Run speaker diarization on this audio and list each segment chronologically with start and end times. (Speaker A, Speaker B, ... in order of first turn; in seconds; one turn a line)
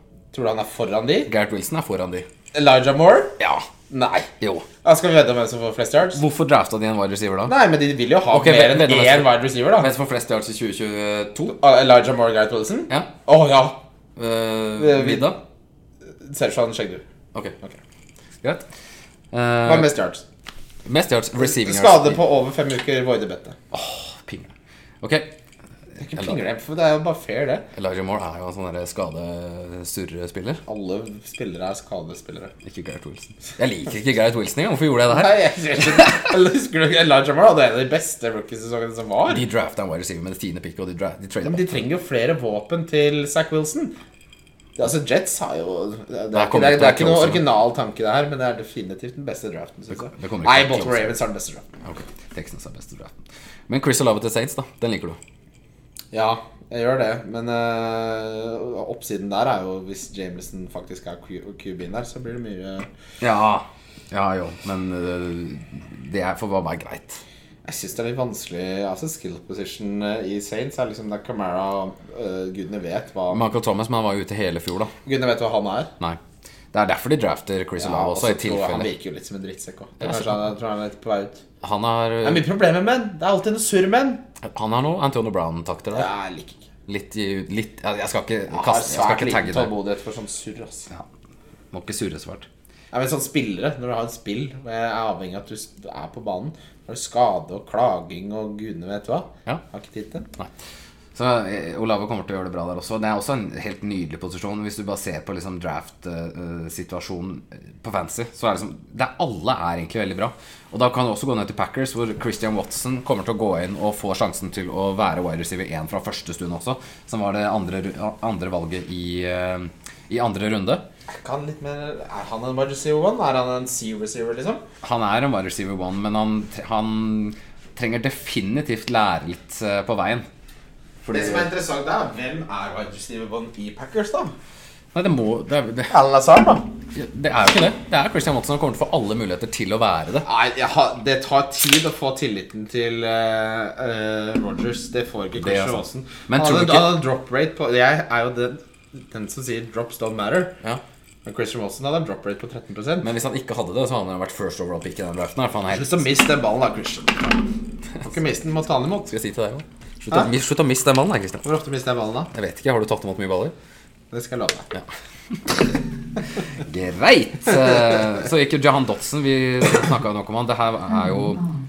Speaker A: 0.3-1.3
Speaker B: 1.2-2.3
Speaker A: 2.5-3.4
Speaker B: 3.4-3.7
Speaker A: 3.9-4.3
Speaker B: 4.4-4.7
Speaker A: 4.8-6.2
Speaker B: 6.1-7.6
Speaker A: 7.5-9.9
Speaker B: 8.3-11.6
Speaker A: 11.5-13.8
Speaker B: 14.2-15.4
Speaker A: 14.7-15.3
Speaker A: 16.2-17.0
Speaker B: 19.3-19.9
Speaker A: 19.6-20.2
Speaker B: 20.9-22.2
Speaker A: 21.4-23.6
Speaker B: 23.7-25.3
Speaker B: 26.0-26.4
Speaker A: 26.0-27.6
Speaker B: 27.7-30.6
Speaker A: 30.7-32.5
Speaker B: 32.6-36.1
Speaker A: 35.1-39.4
Speaker B: 39.3-41.9
Speaker A: 41.4-43.9
Speaker A: 44.8-51.7
Speaker B: 46.3-47.5
Speaker B: 49.9-51.1
Speaker B: 51.8-55.2
Speaker A: 56.1-62.9
Speaker B: 63.2-67.2
Speaker A: 67.6-73.5
Speaker B: 73.3-74.9
Speaker A: 75.0-75.9
Speaker B: 76.7-78.9
Speaker A: 77.8-81.4
Speaker B: 80.0-80.5
Speaker B: 81.6-82.4
Speaker A: 82.2-84.2
Speaker B: 84.4-86.1
Speaker A: 85.9-86.7
Speaker B: 86.9-89.7
Speaker A: 88.5-90.9
Speaker B: 91.7-92.5
Speaker A: 92.9-100.3
Speaker B: 101.1-120.8
Speaker A: 121.1-124.6
Speaker B: 124.8-130.2
Speaker B: 131.0-131.5
Speaker A: 131.1-134.3
Speaker B: 134.9-135.9
Speaker A: 135.9-136.7
Speaker B: 136.9-140.3
Speaker A: 140.2-150.6
Speaker B: 145.4-147.0
Speaker A: 151.2-153.1
Speaker B: 153.0-156.1
Speaker A: 155.7-157.4
Speaker A: 158.0-159.1
Speaker B: 159.1-161.4
Speaker A: 161.4-162.3
Speaker B: 162.3-163.5
Speaker A: 164.1-164.7
Speaker B: 165.4-165.8
Speaker B: 166.5-171.5